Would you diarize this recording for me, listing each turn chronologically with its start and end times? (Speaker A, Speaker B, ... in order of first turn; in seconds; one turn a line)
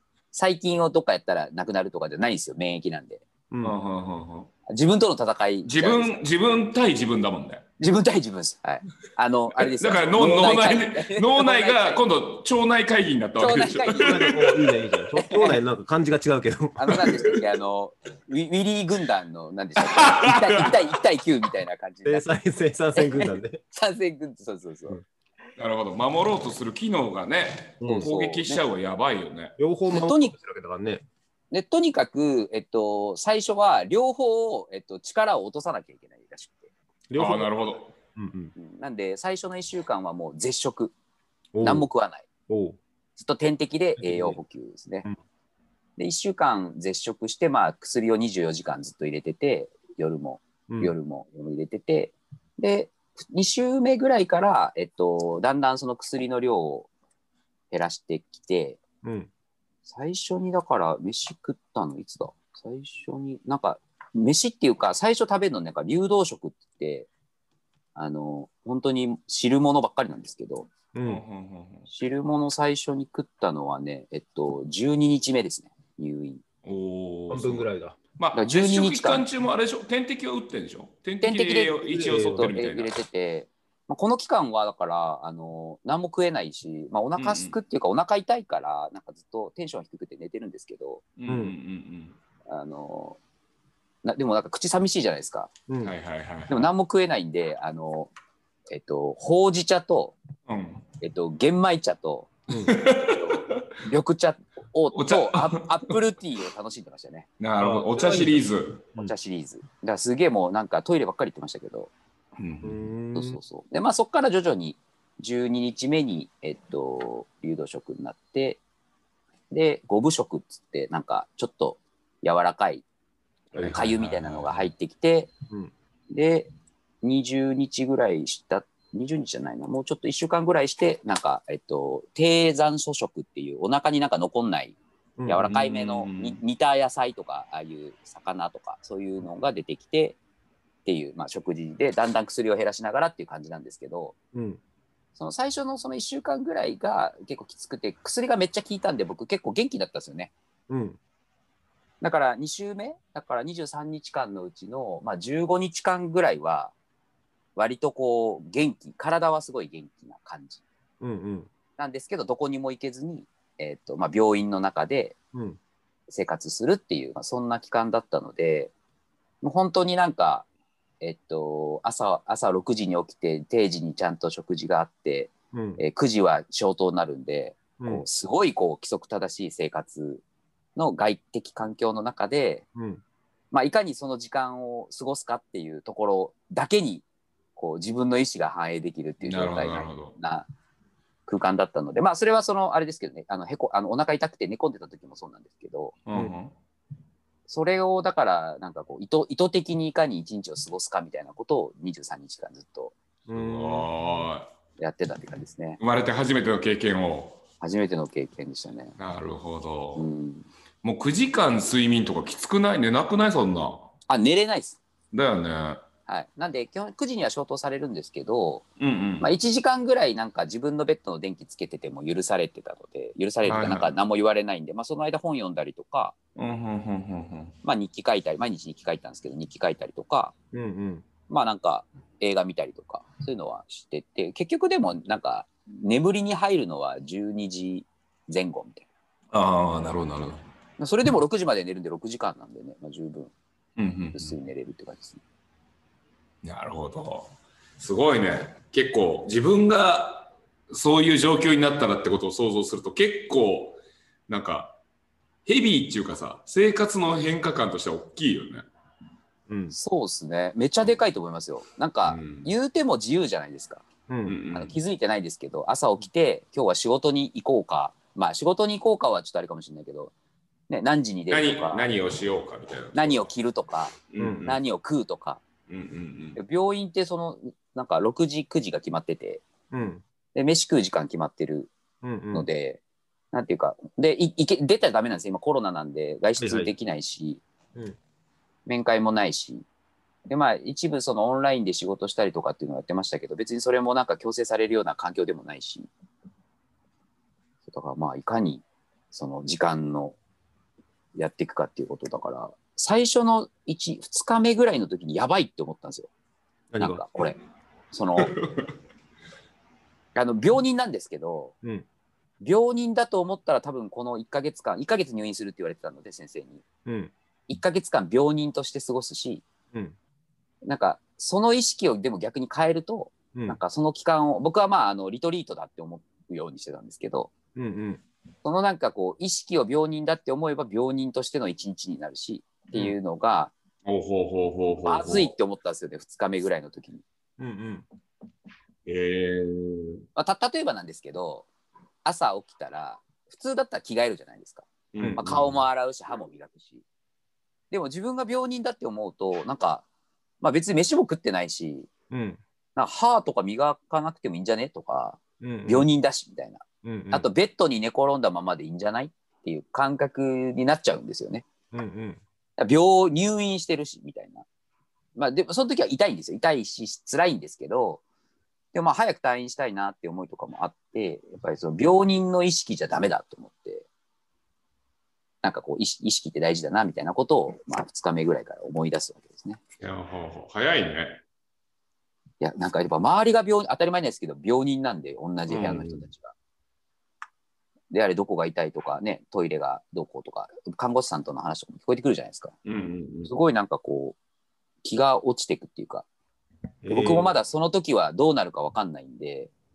Speaker A: 0.3-3.2
Speaker B: 3.5-3.8
Speaker C: 3.6-4.5
Speaker A: 4.7-6.2
Speaker C: 5.7-7.6
Speaker A: 7.8-12.1
Speaker C: 9.7-14.7
Speaker A: 13.4-14.3
Speaker B: 14.0-17.1
Speaker A: 15.2-15.6
Speaker A: 16.8-22.3
Speaker C: 19.9-20.8
Speaker B: 22.1-23.6
Speaker A: 23.0-25.0
Speaker C: 25.6-29.6
Speaker B: 27.8-28.1
Speaker A: 27.8-28.6
Speaker B: 29.6-31.0
Speaker A: 29.9-30.3
Speaker A: 31.5-36.7
Speaker B: 37.1-38.5
Speaker C: 37.2-37.9
Speaker A: 38.6-40.9
Speaker B: 41.5-41.9
Speaker A: 41.6-42.3
Speaker B: 42.5-42.8
Speaker A: 43.2-45.1
Speaker B: 44.0-44.4
Speaker A: 46.0-56.9
Speaker B: 50.7-50.9
Speaker A: 57.7-58.8
Speaker B: 59.0-59.3
Speaker A: 59.9-67.1
Speaker A: 68.0-70.7
Speaker B: 70.9-71.2
Speaker C: 71.0-71.9
Speaker A: 71.9-76.4
Speaker C: 76.6-77.7
Speaker B: 77.3-78.0
Speaker C: 78.2-83.0
Speaker A: 78.3-79.3
Speaker A: 81.2-91.0
Speaker B: 81.9-82.5
Speaker C: 87.2-87.5
Speaker C: 91.2-92.2
Speaker B: 91.3-91.5
Speaker A: 92.5-93.2
Speaker A: 94.0-95.5
Speaker B: 95.7-96.0
Speaker C: 95.8-96.7
Speaker A: 96.5-98.1
Speaker A: 98.7-100.2
Speaker C: 100.5-100.8
Speaker A: 101.0-107.3
Speaker B: 102.5-102.8
Speaker C: 102.5-103.7
Speaker C: 104.9-106.0
Speaker C: 107.4-108.8
Speaker B: 107.6-109.1
Speaker A: 109.0-111.9
Speaker C: 112.4-112.8
Speaker B: 112.6-113.4
Speaker A: 113.2-118.6
Speaker A: 119.5-122.8
Speaker C: 123.6-124.7
Speaker A: 123.6-125.3
Speaker A: 126.1-126.5
Speaker A: 127.0-140.2
Speaker B: 135.2-135.5
Speaker C: 135.4-136.4
Speaker A: 140.8-144.2
Speaker B: 144.3-144.6
Speaker A: 145.2-150.3
Speaker B: 150.7-151.0
Speaker A: 152.0-156.7
Speaker A: 157.6-160.6
Speaker B: 161.0-161.5
Speaker A: 161.8-165.2
Speaker B: 165.3-165.6
Speaker A: 166.1-168.7
Speaker A: 169.4-170.5
Speaker A: 171.0-180.2
Speaker B: 175.5-175.8
Speaker B: 177.8-178.0
Speaker A: 180.8-182.7
Speaker B: 182.8-183.0
Speaker A: 183.5-187.1
Speaker A: 187.6-190.5
Speaker C: 189.2-190.2
Speaker A: 191.3-195.9
Speaker C: 196.1-196.5
Speaker A: 197.5-202.9
Speaker C: 203.3-204.5
Speaker B: 203.3-203.9
Speaker A: 204.8-205.8
Speaker C: 205.8-207.4
Speaker A: 207.6-208.9
Speaker C: 209.0-210.1
Speaker A: 210.0-210.5
Speaker C: 210.8-213.9
Speaker A: 214.1-214.8
Speaker C: 215.1-215.8
Speaker A: 216.1-218.7
Speaker C: 218.8-219.3
Speaker A: 219.2-226.2
Speaker C: 223.4-223.9
Speaker C: 226.4-227.5
Speaker A: 227.6-230.3
Speaker B: 230.5-231.1
Speaker A: 231.3-238.9
Speaker C: 239.3-240.4
Speaker A: 240.8-243.3
Speaker C: 243.8-244.4
Speaker A: 244.1-245.2
Speaker C: 246.4-254.8
Speaker C: 255.5-258.7
Speaker B: 259.5-259.7
Speaker A: 259.7-263.9
Speaker C: 262.0-262.5
Speaker B: 264.1-264.4
Speaker C: 264.3-264.8
Speaker A: 264.5-270.1
Speaker A: 270.7-271.9
Speaker C: 271.3-273.3
Speaker A: 272.9-275.4
Speaker C: 274.0-274.6
Speaker B: 274.2-274.6
Speaker C: 275.7-276.4
Speaker A: 276.4-279.4
Speaker B: 279.7-280.0
Speaker A: 280.4-281.7
Speaker B: 282.0-282.5
Speaker A: 282.3-282.8
Speaker A: 283.3-287.4
Speaker B: 286.4-286.7
Speaker A: 288.7-289.7
Speaker A: 290.3-295.9
Speaker A: 297.7-300.2
Speaker A: 301.1-306.1
Speaker B: 306.7-307.3
Speaker A: 306.8-307.4
Speaker A: 307.9-308.4
Speaker C: 308.2-308.7
Speaker A: 310.1-311.5
Speaker A: 312.4-316.6
Speaker B: 316.9-317.1
Speaker A: 317.5-319.4
Speaker A: 320.6-327.3
Speaker B: 327.6-328.0
Speaker A: 328.4-333.5
Speaker C: 333.9-335.3
Speaker A: 334.9-337.0
Speaker B: 337.4-337.9
Speaker C: 338.9-340.0
Speaker A: 340.2-341.5
Speaker A: 342.1-346.8
Speaker C: 344.9-345.6
Speaker B: 345.0-345.2
Speaker A: 347.7-349.9
Speaker A: 350.4-351.9
Speaker B: 352.1-352.4
Speaker A: 352.8-361.5
Speaker B: 355.4-355.9
Speaker B: 356.8-357.3
Speaker B: 361.7-362.2
Speaker A: 362.6-364.4
Speaker A: 365.2-368.0
Speaker A: 368.7-373.9
Speaker A: 375.4-379.6
Speaker C: 379.8-381.2
Speaker A: 382.4-386.3
Speaker C: 385.5-386.1
Speaker A: 387.9-392.5
Speaker C: 392.6-393.3
Speaker A: 393.2-394.2
Speaker A: 394.8-396.1
Speaker B: 396.8-397.3
Speaker A: 396.9-399.5